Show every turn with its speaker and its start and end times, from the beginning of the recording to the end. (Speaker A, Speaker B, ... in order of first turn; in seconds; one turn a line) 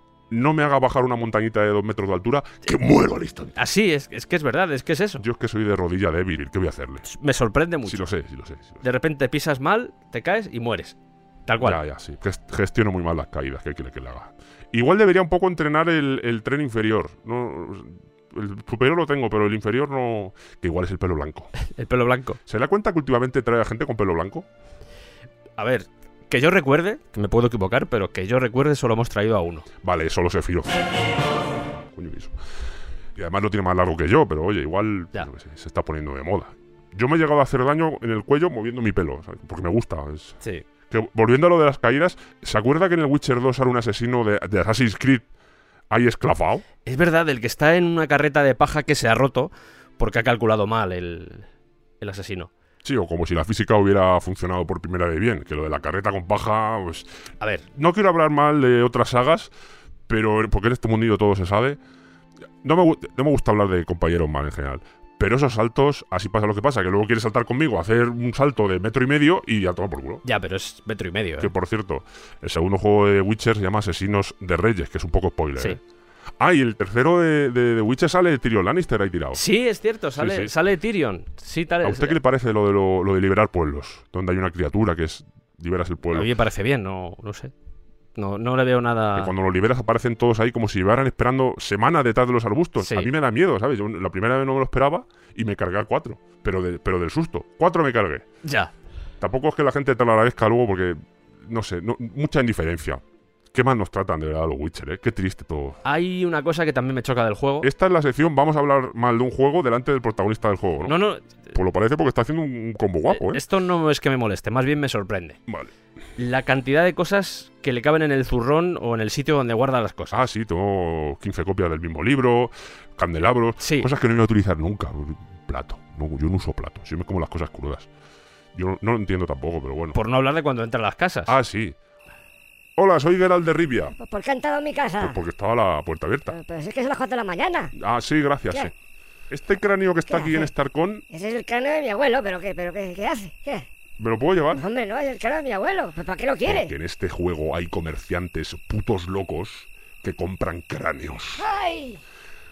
Speaker A: 0.3-3.5
Speaker B: 3.5-5.2
Speaker A: 5.2-7.1
Speaker B: 7.1-8.0
Speaker A: 7.8-8.8
Speaker B: 8.8-11.8
Speaker A: 11.6-21.5
Speaker B: 21.6-22.4
Speaker A: 22.5-24.5
Speaker B: 25.6-29.7
Speaker A: 29.8-30.9
Speaker A: 31.9-32.4
Speaker A: 33.1-45.3
Speaker A: 45.9-46.7
Speaker B: 46.9-51.5
Speaker B: 52.0-52.5
Speaker A: 52.8-57.1
Speaker B: 57.4-57.7
Speaker A: 57.7-59.5
Speaker A: 60.1-61.8
Speaker A: 62.6-70.2
Speaker B: 70.2-71.5
Speaker A: 71.4-75.8
Speaker A: 76.4-79.4
Speaker B: 79.3-82.2
Speaker A: 80.2-80.5
Speaker A: 81.8-86.3
Speaker B: 86.1-87.5
Speaker B: 88.2-89.3
Speaker A: 89.2-98.3
Speaker B: 92.8-93.1
Speaker B: 98.4-98.7
Speaker A: 99.2-105.8
Speaker B: 105.8-107.7
Speaker A: 107.6-111.0
Speaker B: 110.8-111.5
Speaker A: 111.5-113.4
Speaker B: 113.1-115.4
Speaker A: 115.5-115.7
Speaker B: 116.2-120.2
Speaker A: 120.1-127.9
Speaker B: 123.6-123.9
Speaker A: 128.6-130.0
Speaker B: 129.9-131.4
Speaker A: 131.3-131.8
Speaker A: 132.8-134.0
Speaker C: 134.0-135.2
Speaker A: 135.0-136.4
Speaker C: 136.3-137.7
Speaker A: 137.8-138.7
Speaker A: 139.3-141.1
Speaker C: 140.1-140.5
Speaker C: 141.1-143.7
Speaker A: 144.0-144.7
Speaker C: 144.5-146.7
Speaker A: 146.4-151.5
Speaker C: 151.4-152.0